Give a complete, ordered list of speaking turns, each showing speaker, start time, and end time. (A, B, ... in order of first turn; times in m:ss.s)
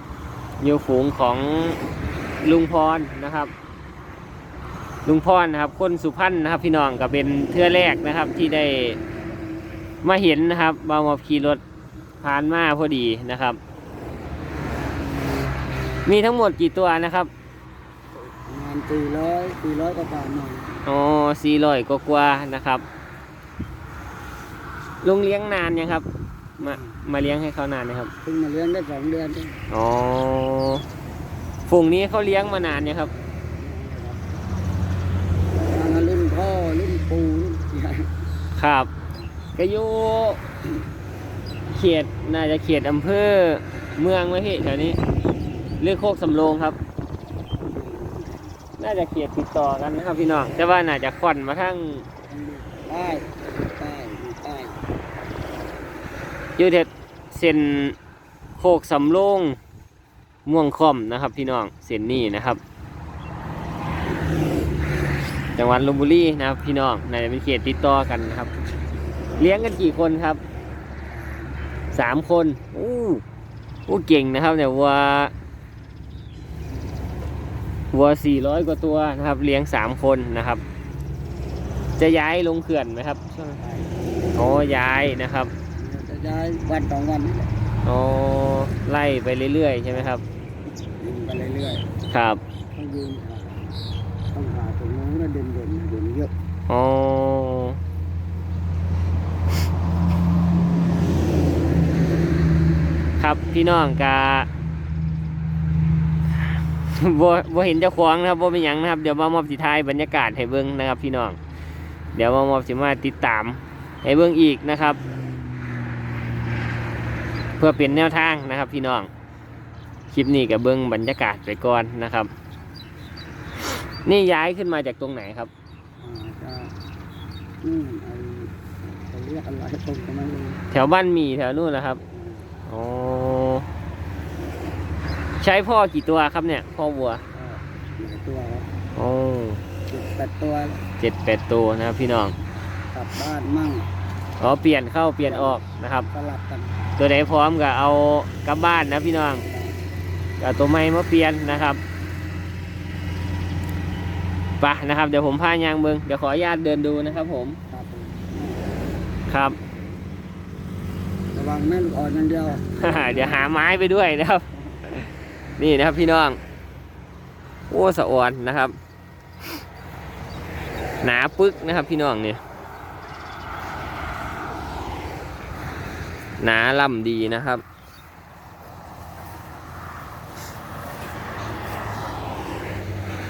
0:00.6-0:01.8 A
0:02.4-0:03.5 A
0:05.0-0:09.0 A
0:10.0-0:11.6 A
0:12.2-0:13.6 A
0:16.0-0:17.3 A
0:18.5-0:20.8 B
0:20.8-0:22.8 A
0:25.0-0:26.0 A
0:26.6-0:28.1 A
0:26.6-0:26.9 B
0:28.2-0:29.6 B
0:29.7-0:30.8 A
0:31.6-0:33.1 A
0:33.6-0:34.3 B
0:35.5-0:38.1 B
0:38.5-0:38.9 A
0:39.6-0:40.4 A
0:41.7-0:45.0 A
0:45.8-0:46.8 A
0:47.6-0:48.6 B
0:48.8-0:52.0 A
0:52.3-0:54.8 B
0:56.6-0:58.0 A
0:58.6-0:59.6 A
1:00.4-1:02.6 A
1:05.5-1:08.5 A
1:09.4-1:10.4 A
1:11.1-1:11.6 B
1:11.9-1:13.2 A
1:13.9-1:15.3 A
1:17.9-1:20.6 A
1:22.0-1:23.6 A
1:23.6-1:24.1 B
1:24.3-1:25.5 A
1:25.8-1:27.5 B
1:27.8-1:30.2 A
1:31.0-1:31.9 B
1:32.1-1:32.4 A
1:32.7-1:33.8 B
1:34.3-1:36.3 B
1:36.7-1:37.8 A
1:43.2-1:44.5 A
1:46.5-1:51.4 A
1:52.1-1:55.0 A
1:57.6-1:59.1 A
2:00.1-2:02.3 A
2:03.7-2:05.5 A
2:06.0-2:06.7 B
2:07.6-2:08.5 B
2:09.0-2:10.6 B
2:10.7-2:12.0 A
2:12.1-2:12.5 B
2:12.6-2:13.7 A
2:15.4-2:17.2 A
2:17.3-2:18.7 B
2:18.9-2:19.6 A
2:19.9-2:20.8 B
2:21.0-2:22.4 A
2:22.9-2:23.9 B
2:24.4-2:26.1 A
2:25.3-2:26.8 B
2:27.0-2:29.4 A
2:29.5-2:29.8 B
2:30.4-2:31.8 A
2:34.6-2:37.6 A
2:37.7-2:38.6 B
2:39.3-2:39.6 A
2:41.3-2:42.6 B
2:42.7-2:46.4 A
2:47.7-2:48.8 A
2:51.0-2:52.4 A
2:56.4-2:57.6 A